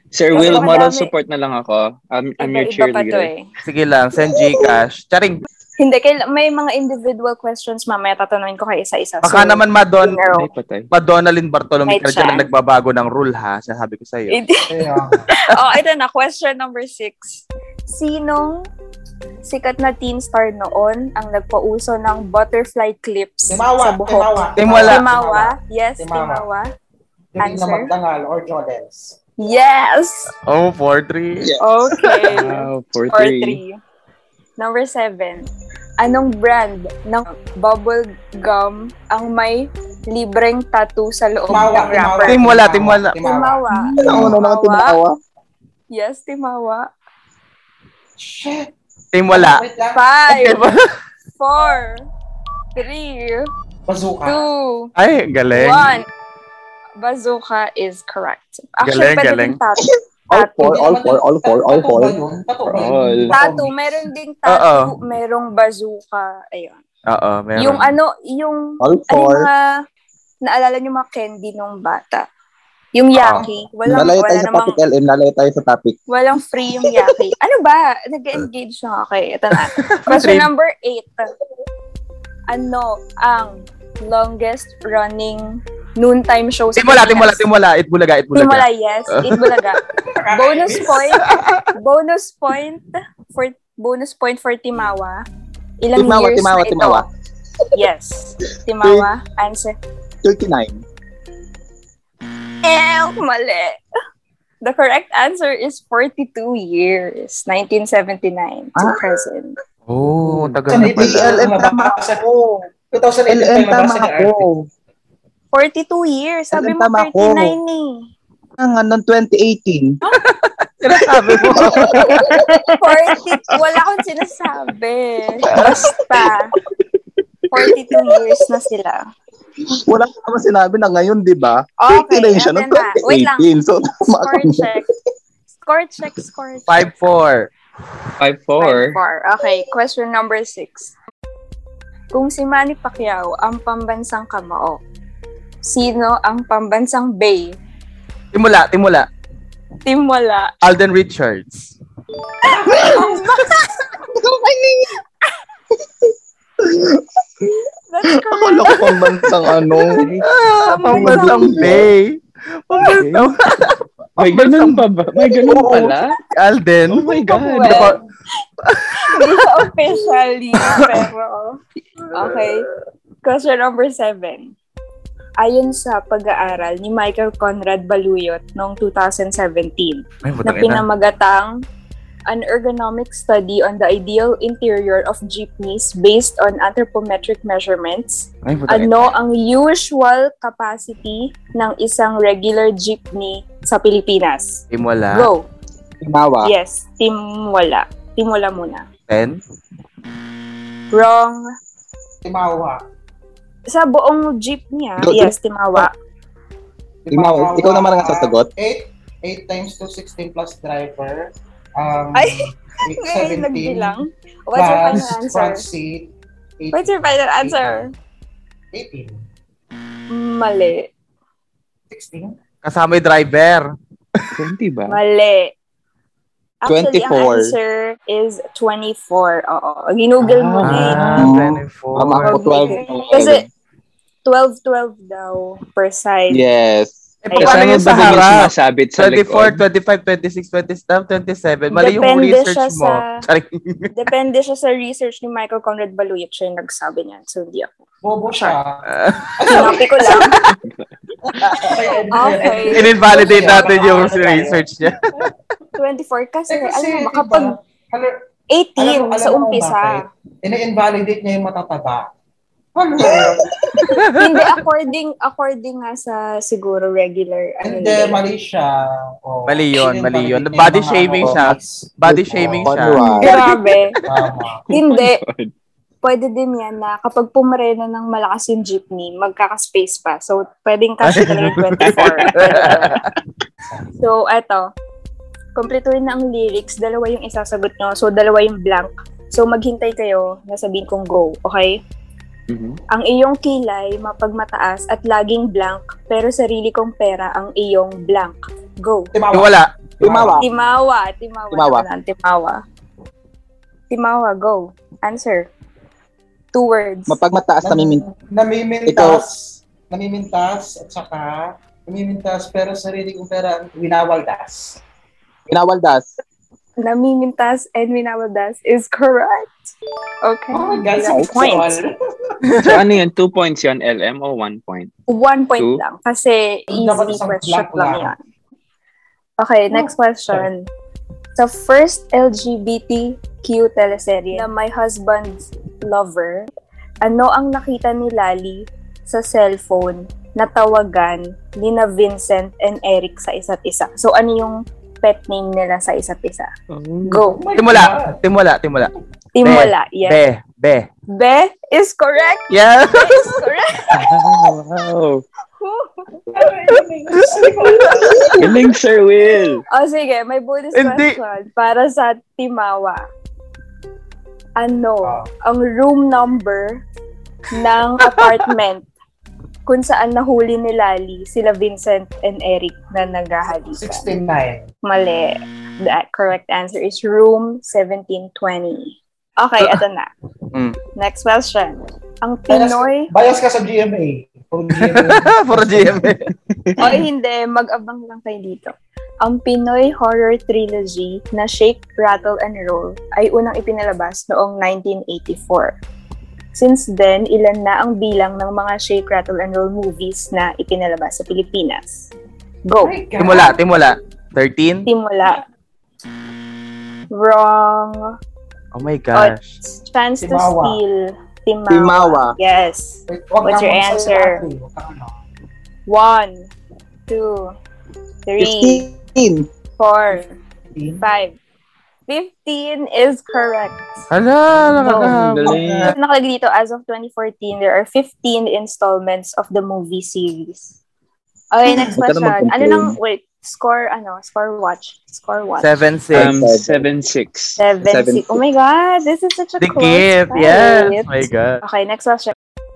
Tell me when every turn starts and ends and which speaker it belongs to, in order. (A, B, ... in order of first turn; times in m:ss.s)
0:00.1-0:03.3 A
0:00.3-0:01.1 B
0:00.3-0:00.8 C
0:02.4-0:03.5 B
0:03.6-0:05.4 D
0:04.4-0:04.7 E
0:05.8-0:10.5 B
0:09.2-0:10.2 D
0:10.2-0:10.9 A
0:10.9-0:14.4 D
0:11.9-0:12.5 B
0:14.3-0:14.7 B
0:14.7-0:15.3 C
0:15.3-0:18.7 B
0:19.4-0:26.7 B
0:23.5-0:26.5 C
0:24.6-0:25.0 D
0:27.4-0:29.2 C
0:27.4-0:27.9 B
0:29.4-0:30.3 B
0:30.5-0:31.5 D
0:31.4-0:32.3 E
0:31.6-0:33.8 B
0:32.3-0:33.6 A
0:34.6-0:35.5 B
0:36.0-0:42.4 B
0:41.5-0:44.4 C
0:42.2-0:43.2 D
0:43.2-0:45.0 B
0:43.9-0:45.2 E
0:45.9-0:46.9 B
0:48.2-0:48.7 C
0:49.1-0:49.6 D
0:49.3-0:50.0 C
0:50.0-0:50.7 B
0:50.3-0:50.8 D
0:51.4-0:52.1 B
0:52.8-0:53.5 B
0:53.9-0:54.4 C
0:54.3-0:54.9 B
0:55.0-0:56.0 D
0:55.5-0:56.1 B
0:57.0-1:00.8 B
0:58.8-0:59.6 D
0:59.8-1:02.2 E
1:00.6-1:04.0 C
1:02.7-1:03.4 A
1:03.3-1:06.8 B
1:04.5-1:04.9 D
1:07.1-1:07.9 D
1:07.6-1:09.7 B
1:08.8-1:09.5 E
1:10.4-1:12.3 B
1:13.0-1:14.8 B
1:13.2-1:13.4 D
1:13.9-1:16.0 E
1:16.1-1:21.3 B
1:19.7-1:20.5 D
1:22.5-1:27.4 B
1:26.8-1:29.8 D
1:28.4-1:29.8 B
1:30.1-1:31.1 C
1:30.3-1:35.2 B
1:31.2-1:31.7 D
1:35.8-1:37.1 B
1:36.0-1:37.1 E
1:37.8-1:39.8 B
1:40.2-1:40.8 E
1:42.6-1:43.8 B
1:44.6-1:49.6 B
1:48.8-1:49.2 E
1:49.9-1:51.4 D
1:50.2-1:50.6 A
1:50.7-1:52.3 C
1:50.8-1:52.0 E
1:52.8-1:54.4 C
1:53.3-1:54.7 E
1:55.5-1:58.1 B
1:56.5-1:57.6 E
1:58.6-2:00.0 E
2:00.1-2:02.4 D
2:01.4-2:02.5 E
2:02.8-2:06.5 B
2:05.5-2:05.8 D
2:05.6-2:06.3 E
2:07.5-2:09.0 B
2:09.9-2:14.8 E
2:11.8-2:13.5 B
2:14.1-2:14.9 B
2:15.6-2:16.9 B
2:16.7-2:17.5 D
2:18.2-2:19.0 A
2:18.6-2:21.0 B
2:22.1-2:24.8 B
2:25.6-2:27.6 B
2:28.3-2:29.1 D
2:29.8-2:30.5 B
2:30.6-2:31.8 D
2:32.4-2:33.3 C
2:32.8-2:33.9 B
2:34.1-2:34.9 E
2:36.6-2:37.5 E
2:37.9-2:38.9 B
2:38.3-2:40.0 E
2:40.0-2:40.3 A
2:40.2-2:44.9 D
2:40.6-2:41.7 B
2:40.9-2:41.9 E
2:42.8-2:43.3 A
2:44.2-2:46.2 A
2:45.5-2:48.0 D
2:46.9-2:48.0 A
2:47.3-2:48.0 B
2:48.6-2:49.7 D
2:48.9-2:52.7 B
2:50.6-2:51.1 D
2:52.1-2:52.6 D
2:53.2-2:54.6 B
2:55.4-3:01.6 B
3:00.2-3:00.8 D
3:02.3-3:15.5 B
3:08.4-3:09.1 D
3:14.7-3:15.3 D
3:16.0-3:16.5 E
3:16.4-3:18.9 B
3:19.1-3:19.4 D
3:20.9-3:21.4 B
3:22.2-3:22.8 C
3:23.7-3:25.9 B
3:25.0-3:25.9 E
3:27.0-3:34.0 C
3:27.1-3:28.5 E
3:32.2-3:35.7 B
3:34.6-3:37.9 C
3:36.7-3:37.9 B
3:38.7-3:39.2 C
3:40.1-3:40.9 B
3:41.9-3:42.4 C
3:42.6-3:44.3 D
3:44.4-3:45.0 A
3:44.9-3:45.5 B
3:46.6-3:51.2 B
3:46.7-3:47.5 E
3:50.2-3:51.4 A
3:50.6-3:52.4 D
3:51.2-3:53.5 E
3:52.2-3:53.4 B
3:54.2-3:56.4 B
3:56.3-3:57.1 E
3:57.2-4:03.9 D
3:57.3-3:57.7 B
3:57.4-3:59.6 A
4:01.7-4:03.2 B
4:04.0-4:07.8 B
4:08.0-4:10.2 C
4:08.9-4:10.5 D
4:09.5-4:10.4 B
4:10.5-4:10.9 A
4:11.4-4:11.7 D
4:11.5-4:15.3 C
4:11.6-4:13.8 B
4:12.7-4:15.1 D
4:15.8-4:17.6 B
4:16.5-4:18.1 C
4:18.5-4:20.0 B
4:18.8-4:22.1 C
4:22.8-4:23.5 C
4:23.0-4:23.9 E
4:23.8-4:24.6 D
4:24.2-4:28.2 B
4:27.6-4:28.7 C
4:29.2-4:33.5 C
4:29.5-4:33.1 D
4:32.1-4:33.3 E
4:33.0-4:34.0 B
4:34.1-4:34.6 C
4:34.7-4:35.5 A
4:34.7-4:35.2 B
4:36.0-4:43.0 B
4:41.0-4:43.1 D
4:41.8-4:42.7 A
4:44.0-4:44.7 B
4:45.6-4:51.8 B
4:52.5-4:52.8 A
4:52.9-4:59.1 B
4:59.1-5:00.4 C
4:59.3-4:59.8 D
5:00.0-5:00.4 E
5:00.4-5:02.6 B
5:01.5-5:01.8 E
5:03.9-5:05.5 B
5:06.5-5:07.2 B
5:07.1-5:08.0 E
5:07.6-5:14.8 C
5:08.9-5:09.3 E
5:15.5-5:16.2 E
5:16.8-5:19.5 B
5:20.2-5:21.8 B
5:20.5-5:21.9 C
5:21.1-5:21.5 E
5:22.4-5:22.8 D
5:22.6-5:24.9 A
5:25.1-5:28.2 B
5:26.7-5:28.1 C
5:29.4-5:30.7 B
5:29.7-5:30.5 C
5:31.4-5:36.5 B
5:37.0-5:46.5 B
5:46.7-5:47.2 A
5:47.1-5:47.4 B
5:47.2-5:48.2 C
5:47.6-5:48.9 D
5:49.4-5:50.2 B
5:49.4-5:50.9 D
5:51.1-5:54.1 B
5:52.5-5:53.4 D
5:53.9-5:55.2 A
5:55.6-5:56.1 B
5:56.3-5:58.4 C
5:57.2-5:58.4 D
5:58.4-5:59.6 A
5:59.7-6:03.0 B
6:00.8-6:01.2 D
6:04.6-6:06.8 B
6:05.0-6:05.3 C
6:07.5-6:08.9 B
6:08.0-6:08.5 D
6:09.7-6:14.1 B
6:13.7-6:14.7 C
6:14.8-6:20.1 B
6:21.0-6:23.1 B
6:22.5-6:26.1 C
6:25.0-6:26.3 D
6:26.8-6:35.8 B
6:36.6-6:42.1 B
6:42.7-6:43.0 B
6:42.8-6:43.6 C
6:43.2-6:44.9 D
6:44.9-6:45.4 B
6:47.1-6:48.1 B
6:48.7-6:49.6 D
6:49.1-6:54.4 B
6:50.2-6:50.8 C
6:51.7-6:52.4 E
6:53.1-6:55.2 C
6:55.9-6:56.5 B
6:57.1-6:57.5 B
6:58.3-6:58.9 B
6:58.4-6:59.5 E
6:59.8-7:00.4 B
7:00.7-7:01.0 C
7:01.0-7:01.4 B
7:02.1-7:04.0 B
7:04.1-7:05.9 D
7:04.5-7:06.0 A
7:05.9-7:10.8 B
7:11.5-7:15.8 B
7:11.9-7:13.0 E
7:15.6-7:16.4 D
7:16.1-7:16.8 E
7:16.1-7:17.6 A
7:17.6-7:22.3 B
7:17.8-7:18.4 E
7:19.6-7:21.6 D